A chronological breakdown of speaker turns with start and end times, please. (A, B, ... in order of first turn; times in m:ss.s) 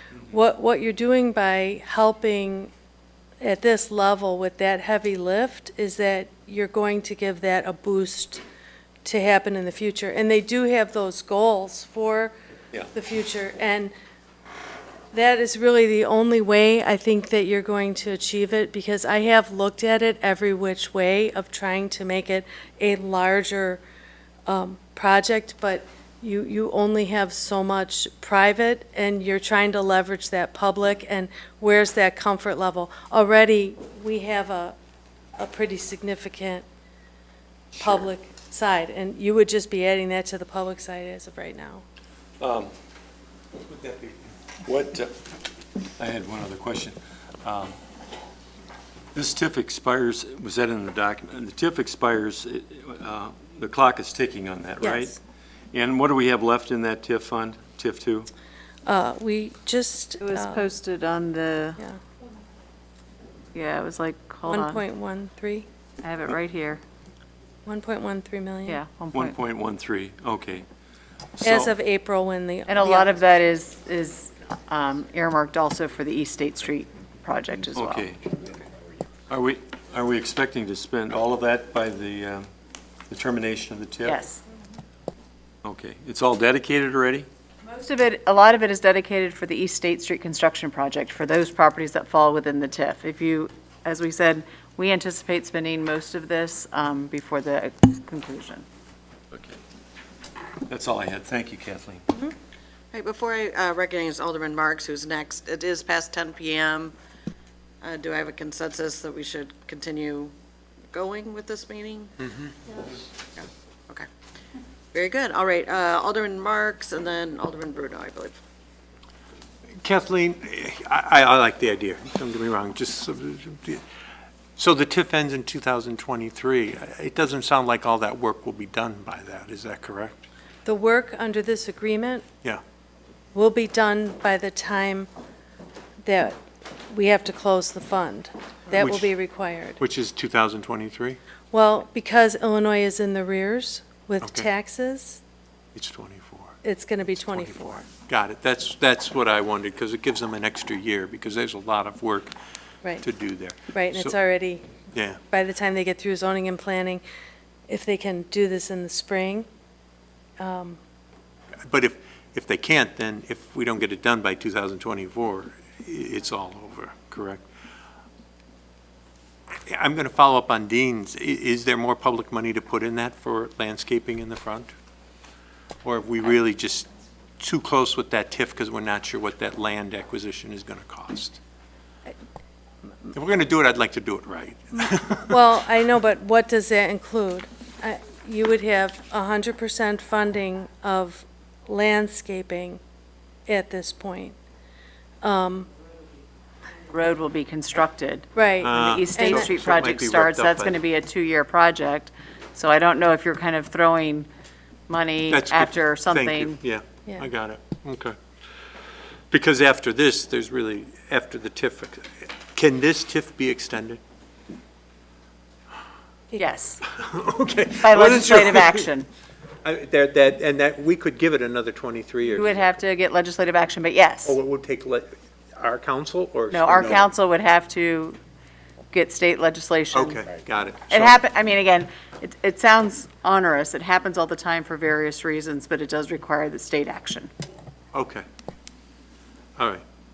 0:00.3-0:02.7 A
0:03.4-0:08.4 A
0:09.0-0:12.3 A
0:12.9-0:13.9 A
0:15.1-0:23.8 A
0:24.5-0:34.8 A
0:35.4-0:36.7 A
0:37.8-0:41.8 A
0:42.4-0:42.7 B
0:43.7-0:44.2 C
0:44.6-0:45.2 B
0:46.0-0:47.8 B
0:49.1-0:55.2 B
0:54.8-0:55.2 A
0:55.7-0:58.3 B
0:58.9-1:00.6 A
1:00.2-1:01.8 D
1:03.5-1:04.8 D
1:04.5-1:05.7 A
1:06.0-1:06.8 D
1:07.6-1:08.8 A
1:08.7-1:09.4 D
1:09.1-1:10.6 B
1:11.4-1:11.7 B
1:11.4-1:13.2 A
1:12.7-1:18.1 D
1:17.8-1:18.5 B
1:19.3-1:22.5 B
1:23.1-1:24.2 B
1:24.0-1:24.4 D
1:25.6-1:27.3 B
1:27.7-1:38.6 D
1:39.3-1:39.6 B
1:40.7-1:42.1 B
1:42.9-1:46.9 E
1:47.8-1:50.3 E
1:50.9-1:52.1 E
1:52.2-1:52.5 C
1:52.7-1:54.1 E
1:54.9-1:58.4 E
1:59.8-2:03.8 C
2:04.6-2:10.2 C
2:10.6-2:12.2 A
2:13.3-2:15.1 A
2:16.0-2:16.4 A
2:16.9-2:19.8 A
2:18.7-2:19.1 C
2:19.8-2:21.2 C
2:21.5-2:25.2 A
2:25.8-2:26.6 C
2:26.6-2:27.9 A
2:27.2-2:32.3 C
2:33.0-2:34.2 C
2:33.7-2:34.6 A
2:34.9-2:35.2 C
2:35.3-2:37.0 A
2:37.7-2:39.5 A
2:40.4-2:40.8 A
2:41.7-2:47.5 C
2:49.7-2:54.7 C
2:55.8-2:56.9 C
2:57.4-3:01.4 C
3:03.1-3:05.4 C
3:05.3-3:12.8 A
3:13.5-3:14.4 A
3:15.2-3:15.7 A
3:16.9-3:24.3 D
3:18.3-3:19.5 A
3:18.6-3:20.8 C
3:24.9-3:26.6 D
3:25.3-3:28.2 C
3:29.3-3:34.0 C
3:36.4-3:36.8 D
3:36.8-3:38.9 C
3:37.8-3:39.1 D
3:39.6-3:42.6 C
3:42.3-3:44.4 D
3:44.2-3:47.1 C
3:46.5-3:48.2 D
3:48.9-3:50.2 D
3:49.9-3:51.2 C
3:50.9-3:57.3 D
3:57.9-3:58.2 C
3:59.6-3:59.8 C